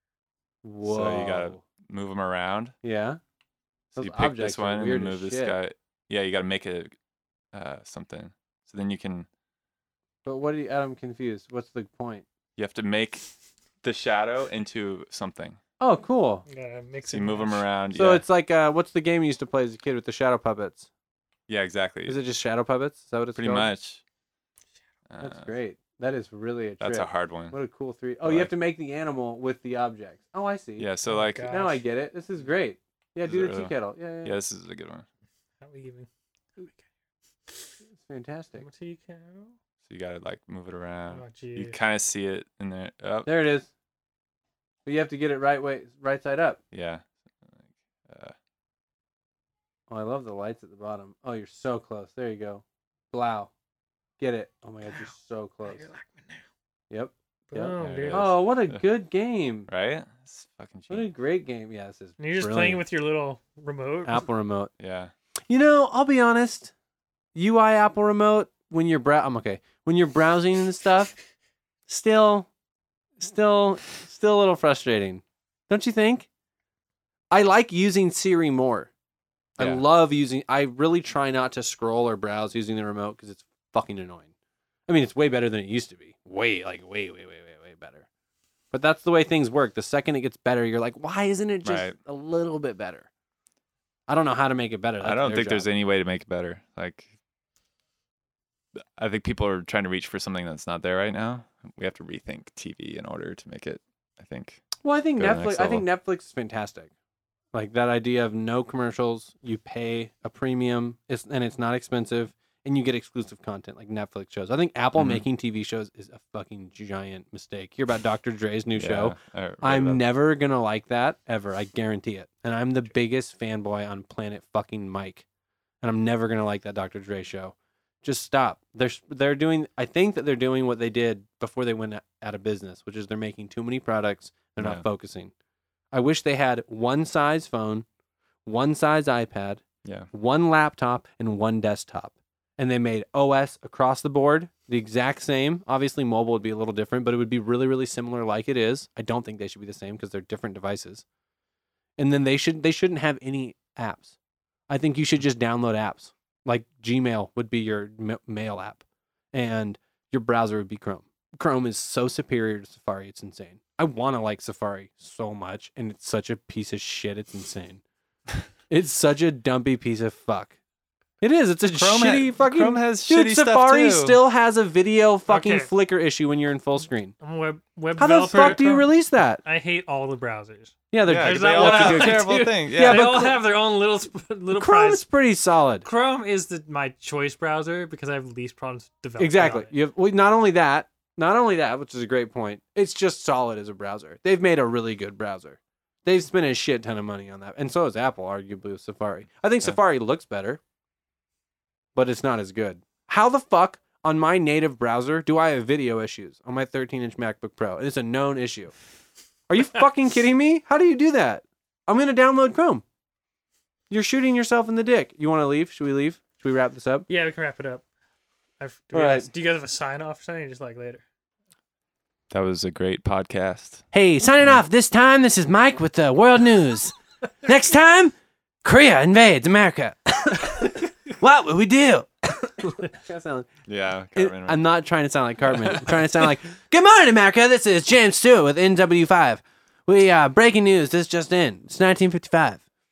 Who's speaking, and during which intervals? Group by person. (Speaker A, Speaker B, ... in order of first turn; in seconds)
Speaker A: 0.6-1.6, 2.8-3.2, 3.9-5.5, 10.2-12.2, 15.8-16.4, 17.9-20.9, 22.1-23.7, 25.2-30.9, 31.5-34.4, 38.0-38.6, 43.2-43.7, 44.9-46.6, 49.9-53.5, 54.2-55.9, 56.9-59.7, 60.9-62.8, 64.0-64.7, 65.5-66.7, 67.3-71.1, 71.9-72.5, 73.2-76.3, 77.3-78.9, 79.6-84.3, 84.9-88.0, 88.7-93.1, 94.1-95.7, 104.8-106.9, 107.5-125.2, 125.8-135.3, 135.9-137.8, 138.4-151.0, 152.0-154.1, 154.7-167.8, 168.7-170.6, 171.2-177.1, 178.0-179.4, 180.9-183.4, 184.6-185.8, 189.2-200.6, 201.9-208.7, 209.5-212.8, 213.9-217.1, 218.9-219.3, 223.9-233.5, 234.1-242.6
Speaker B: 0.8-2.7, 4.0-6.9, 7.5-9.3, 12.6-13.2, 13.8-15.6, 17.1-18.2, 21.5-22.2, 23.4-24.0, 25.1-25.5, 26.8-27.5, 28.2-28.5, 30.8-31.6, 33.3-35.0, 39.9-43.3, 46.7-48.3, 57.8-58.8, 59.7-61.1, 64.8-65.1, 91.6-91.9, 95.0-97.1, 98.8-105.8, 114.9-115.2, 118.8-120.0, 134.6-134.8, 171.7-174.2, 181.0-183.1, 222.3-223.8, 233.7-234.6, 235.5-236.0
Speaker C: 16.5-17.6, 31.1-31.8, 35.6-36.1, 37.5-37.7, 38.6-39.5, 41.1-41.8, 55.7-56.4, 57.5-58.4, 62.2-64.3, 175.3-175.7, 177.2-178.9, 179.4-185.1, 185.8-189.7, 217.1-217.8, 218.6-221.0